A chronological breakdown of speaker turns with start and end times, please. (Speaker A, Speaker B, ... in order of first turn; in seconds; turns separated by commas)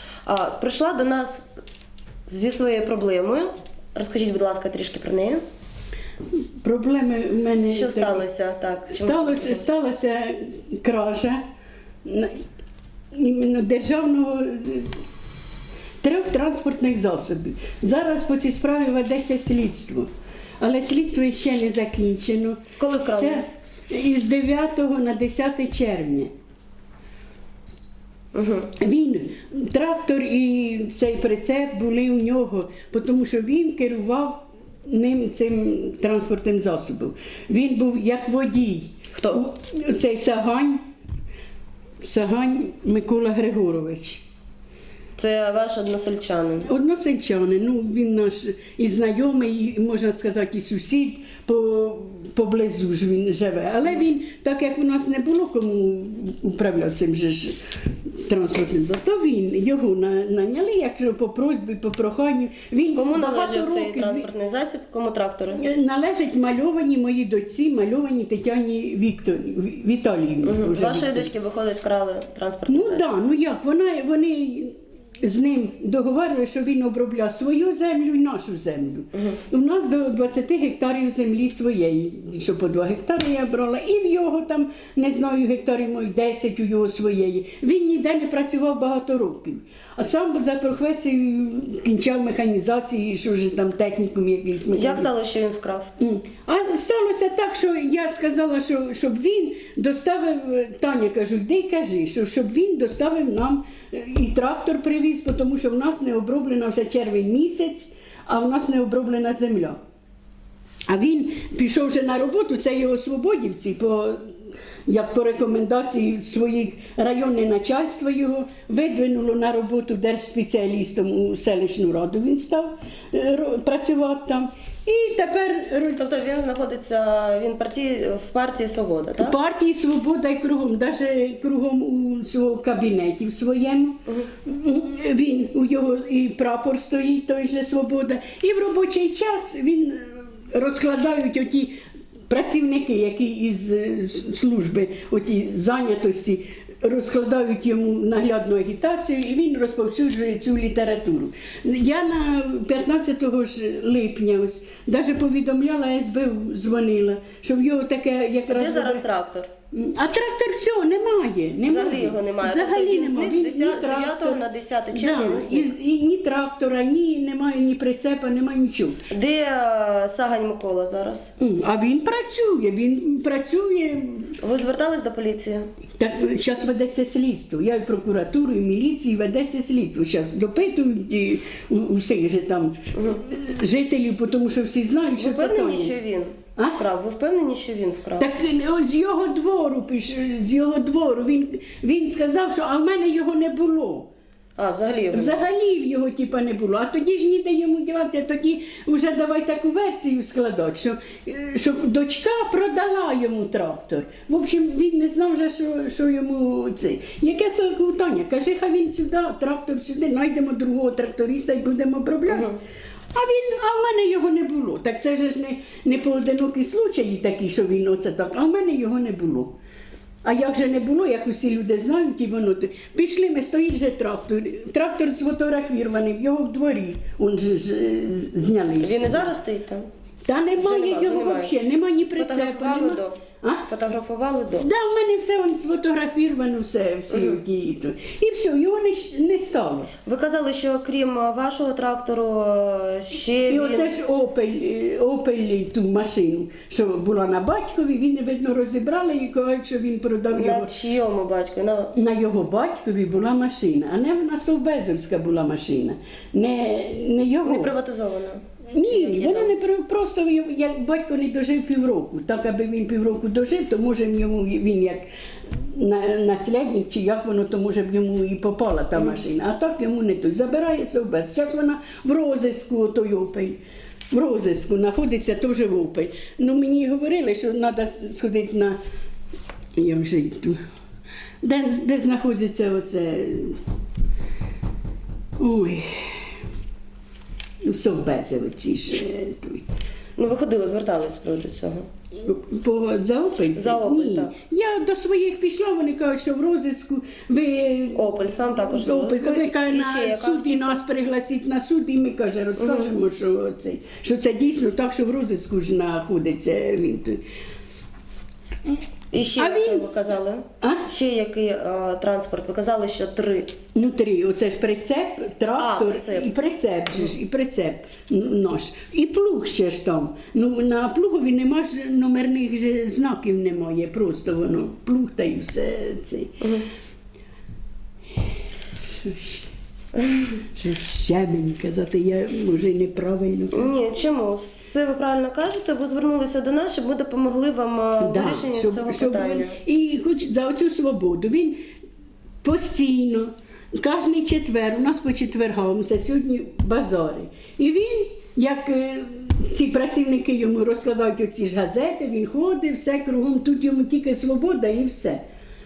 Speaker A: 0.2-1.4, Speaker A: 2.3-5.4, Speaker B: 6.6-8.2, Speaker A: 7.7-9.6, Speaker B: 8.9-11.4, Speaker B: 12.0-12.4, Speaker B: 13.1-14.9, Speaker B: 16.0-20.1, Speaker B: 20.6-22.6, Speaker A: 22.8-23.4, Speaker B: 23.2-26.3, Speaker A: 28.3-28.7, Speaker B: 28.8-40.8, Speaker A: 39.1-39.4, Speaker B: 42.0-44.2, Speaker A: 45.2-46.7, Speaker B: 46.6-57.6, Speaker B: 58.2-64.3, Speaker A: 62.9-65.7, Speaker B: 65.5-71.3, Speaker A: 70.4-73.1, Speaker B: 72.7-95.1, Speaker A: 79.1-79.4, Speaker A: 94.7-95.9, Speaker B: 96.0-109.8, Speaker B: 110.9-114.2, Speaker B: 114.9-126.0, Speaker A: 125.9-129.4, Speaker B: 129.2-141.7, Speaker B: 142.3-159.0, Speaker A: 158.5-159.5, Speaker B: 159.7-164.4, Speaker A: 161.7-165.7, Speaker B: 164.9-169.0, Speaker A: 169.1-171.3, Speaker B: 171.4-174.4, Speaker A: 174.4-175.7, Speaker B: 176.0-185.9, Speaker A: 182.9-183.2, Speaker A: 185.2-188.3, Speaker B: 188.2-194.1, Speaker A: 194.6-195.4, Speaker B: 195.1-212.5, Speaker A: 212.3-212.6, Speaker B: 213.1-219.5, Speaker B: 220.2-229.3, Speaker A: 228.8-229.9, Speaker B: 230.2-233.7, Speaker A: 230.6-231.6, Speaker A: 232.2-234.7, Speaker B: 234.6-239.9, Speaker A: 237.1-237.4, Speaker A: 240.0-243.9, Speaker B: 243.5-250.7, Speaker A: 250.3-251.9, Speaker B: 251.9-257.7, Speaker A: 257.4-259.5, Speaker B: 258.7-265.0, Speaker B: 265.7-273.6, Speaker A: 268.9-269.2, Speaker B: 274.1-278.8, Speaker B: 279.8-280.6, Speaker B: 281.4-283.6, Speaker B: 285.4-286.2, Speaker B: 287.6-289.6, Speaker A: 290.2-291.8, Speaker B: 292.2-307.2, Speaker A: 293.6-294.3, Speaker A: 297.9-300.8, Speaker A: 302.6-302.9, Speaker A: 309.1-313.5, Speaker B: 309.4-309.9, Speaker B: 313.7-326.4, Speaker A: 315.6-316.3, Speaker A: 326.4-326.6, Speaker B: 329.0-329.4, Speaker A: 330.0-330.3, Speaker B: 330.5-333.7, Speaker A: 333.5-339.6, Speaker B: 338.0-341.6, Speaker B: 342.4-355.2